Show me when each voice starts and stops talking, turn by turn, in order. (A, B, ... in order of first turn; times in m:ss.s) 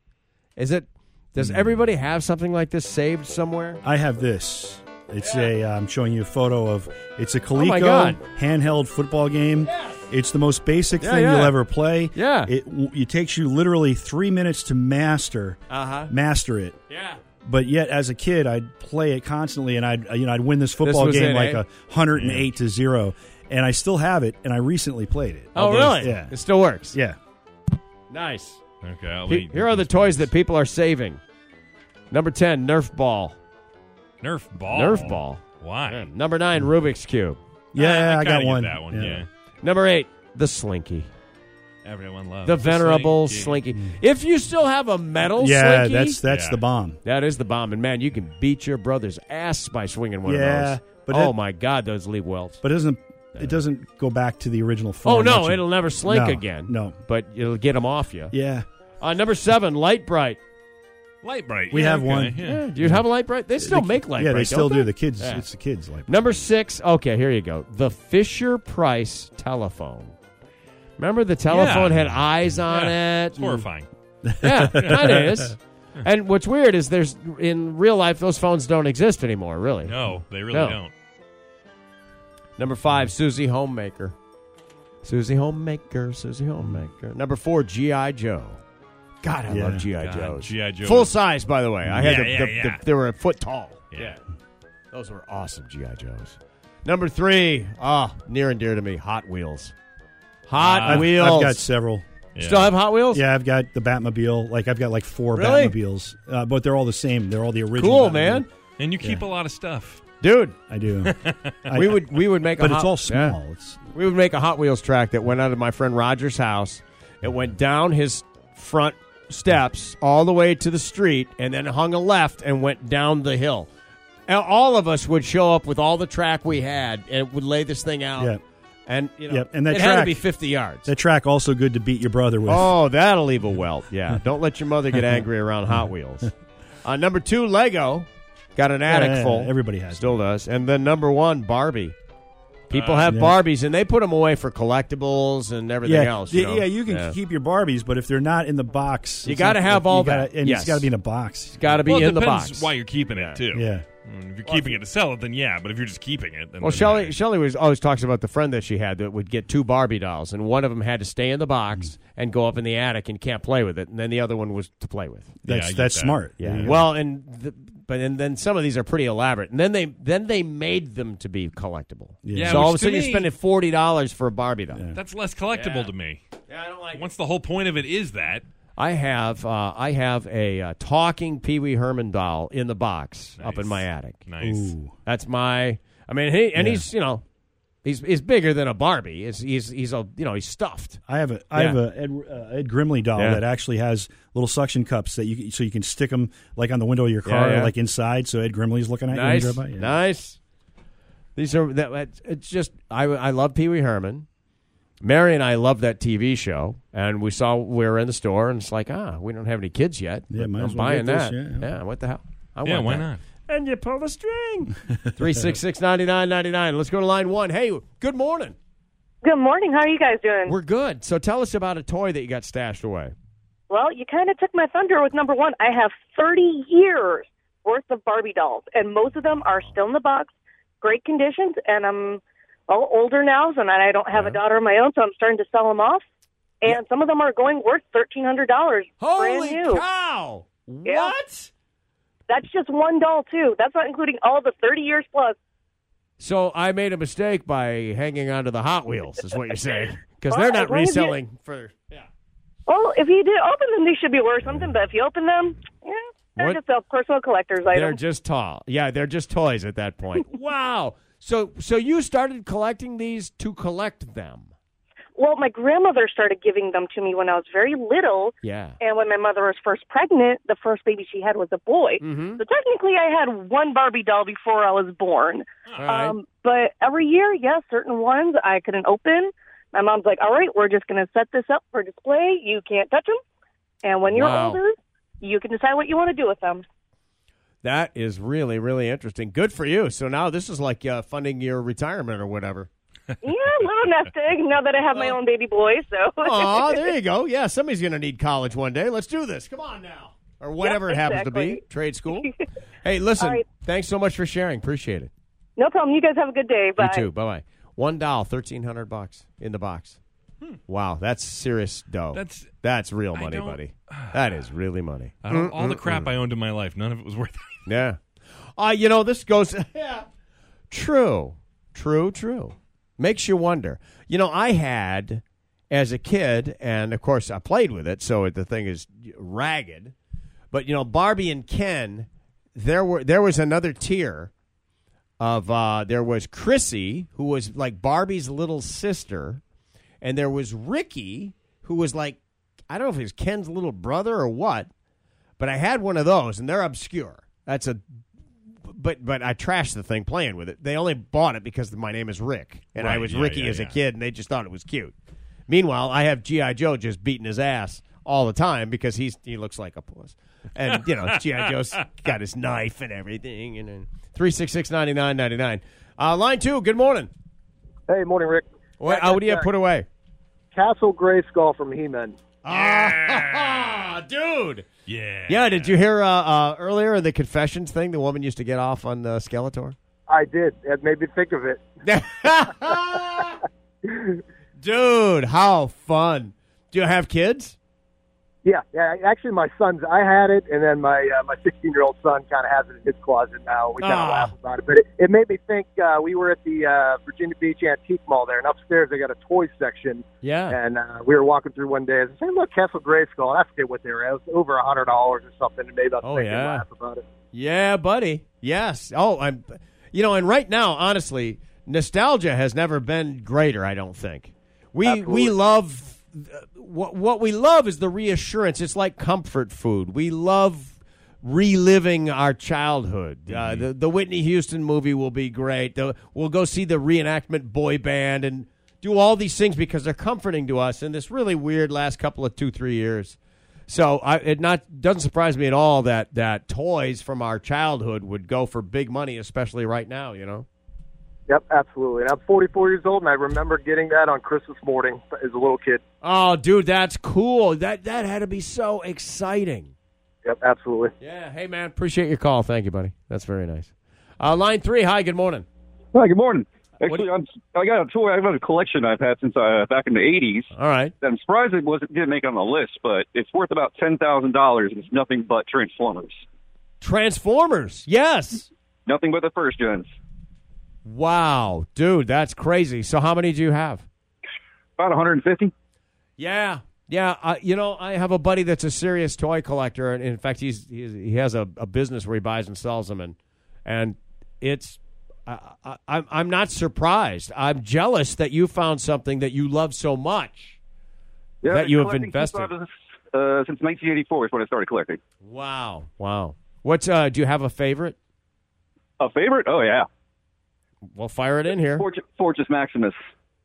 0:00.6-0:03.8 A
0:01.4-0:01.8 B
0:03.8-0:16.8 B
0:05.2-0:05.5 A
0:07.6-0:08.2 A
0:09.6-0:10.1 A
0:11.0-0:11.5 A
0:12.1-0:12.5 A
0:15.7-0:16.1 A
0:16.9-0:17.2 A
0:17.4-0:27.2 B
0:20.8-0:21.6 A
0:22.1-0:22.5 C
0:25.5-0:27.0 A
0:28.1-0:28.6 A
0:28.8-0:30.3 C
0:29.2-0:31.2 A
0:32.1-0:33.4 A
0:34.2-0:36.1 C
0:34.7-0:37.4 A
0:37.7-0:39.2 B
0:37.8-0:39.3 C
0:39.6-0:41.1 A
0:41.8-0:43.6 C
0:42.4-0:46.2 A
0:43.7-0:44.0 B
0:45.4-0:47.0 B
0:46.3-0:46.6 C
0:47.0-0:52.6 A
0:50.2-0:51.4 B
0:52.6-0:57.0 B
0:53.3-0:53.6 A
0:55.0-0:58.3 A
0:58.3-0:58.6 B
0:59.0-1:00.4 A
1:01.2-1:02.7 C
1:01.7-1:06.5 B
1:02.4-1:05.4 A
1:06.0-1:10.1 A
1:11.0-1:13.5 A
1:11.5-1:12.2 C
1:12.7-1:13.9 C
1:14.2-1:15.4 B
1:14.4-1:19.9 A
1:19.8-1:20.9 C
1:20.5-1:20.8 A
1:22.6-1:24.2 A
1:25.0-1:28.6 A
1:29.2-1:34.2 A
1:29.5-1:29.9 B
1:30.0-1:31.1 C
1:31.8-1:32.2 B
1:32.0-1:32.8 C
1:34.9-1:39.7 A
1:40.5-1:41.6 A
1:40.6-1:41.1 C
1:40.8-1:42.0 B
1:42.3-1:42.8 C
1:42.4-1:43.2 A
1:43.1-1:48.5 B
1:45.3-1:45.8 A
1:47.8-1:48.5 A
1:48.8-1:50.0 C
1:49.0-1:49.2 B
1:50.2-1:50.6 A
1:50.7-1:53.9 B
1:51.0-1:51.7 C
1:51.7-1:53.4 A
1:53.9-2:03.7 A
2:04.3-2:08.3 A
2:08.8-2:10.9 A
2:09.3-2:10.3 B
2:10.8-2:12.7 B
2:12.5-2:16.3 A
2:16.8-2:22.0 A
2:18.9-2:20.2 B
2:22.7-2:27.2 A
2:22.7-2:23.1 C
2:23.0-2:23.4 B
2:25.8-2:31.6 B
2:29.2-2:30.9 A
2:31.5-2:33.4 A
2:31.6-2:37.1 C
2:33.5-2:33.9 B
2:34.4-2:34.8 B
2:36.6-2:45.3 A
2:45.4-2:46.9 B
2:45.5-2:46.8 C
2:46.4-2:54.8 A
2:52.2-2:52.8 B
2:52.3-2:53.3 C
2:54.7-2:55.0 B
2:54.9-2:56.2 C
2:55.5-2:55.9 A
2:56.5-2:57.1 A
2:56.9-2:58.4 C
2:58.8-3:04.2 A
3:03.4-3:04.7 C
3:04.4-3:05.0 B
3:05.0-3:07.2 A
3:06.6-3:06.8 B
3:07.8-3:11.0 A
3:11.0-3:20.0 B
3:11.5-3:11.8 A
3:13.1-3:13.4 A
3:17.2-3:17.7 A
3:19.1-3:20.4 A
3:21.4-3:24.2 A
3:25.0-3:38.6 A
3:30.3-3:31.7 B
3:32.6-3:33.2 C
3:39.2-3:40.6 D
3:40.4-3:43.1 A
3:43.7-3:56.0 D
3:56.6-3:59.8 D
3:59.0-4:01.5 A
4:00.8-4:01.2 D
4:02.3-4:05.3 D
4:06.2-4:12.1 A
4:10.3-4:11.2 D
4:12.7-4:18.0 D
4:17.7-4:24.5 A
4:25.2-4:43.2 D
4:28.4-4:28.8 A
4:32.0-4:32.4 A
4:35.8-4:36.2 A
4:43.8-4:46.6 D
4:44.1-4:44.6 A
4:47.6-4:52.7 A
4:53.2-4:56.9 D
4:56.2-5:02.3 A
5:00.6-5:02.3 D
5:02.8-5:05.1 A
5:03.2-5:03.5 D
5:05.6-5:07.0 D
5:06.8-5:10.0 A
5:10.7-5:16.1 A
5:12.1-5:12.5 C
5:13.1-5:14.4 C
5:15.2-5:17.7 C
5:17.6-5:18.0 A
5:18.6-5:20.1 A
5:20.7-5:29.9 A
5:30.5-5:34.3 A
5:35.2-5:39.4 A
5:40.0-5:44.7 A
5:45.4-5:47.8 A
5:48.6-5:54.9 A
5:52.8-5:53.8 C
5:55.5-6:07.1 A
6:07.9-6:09.5 E
6:08.8-6:09.8 A
6:10.5-6:12.2 E
6:12.4-6:14.6 A
6:12.5-6:13.0 C
6:14.9-6:15.8 C
6:15.3-6:19.8 A
6:20.1-6:21.6 E
6:21.8-6:23.3 A
6:23.9-6:24.2 E
6:24.6-6:27.6 A
6:28.4-6:47.0 E
6:33.8-6:34.3 A
6:40.2-6:40.6 A
6:46.0-6:46.6 A
6:47.3-7:13.2 A
6:54.8-6:55.4 E
7:03.3-7:03.7 C
7:13.7-7:20.5 A
7:21.3-7:25.8 E
7:26.0-7:29.7 A
7:30.2-7:30.9 E
7:31.0-7:35.4 A
7:35.9-7:46.2 F
7:40.5-7:40.9 A
7:46.8-7:48.5 A
7:48.8-7:49.9 F
7:50.8-7:53.8 A
7:54.8-7:55.5 F
7:56.2-8:10.6 A
8:11.4-8:15.0 F
8:11.5-8:12.5 A
8:15.2-8:18.0 A
8:19.0-8:19.9 F
8:20.9-8:21.8 A
8:21.7-8:23.0 F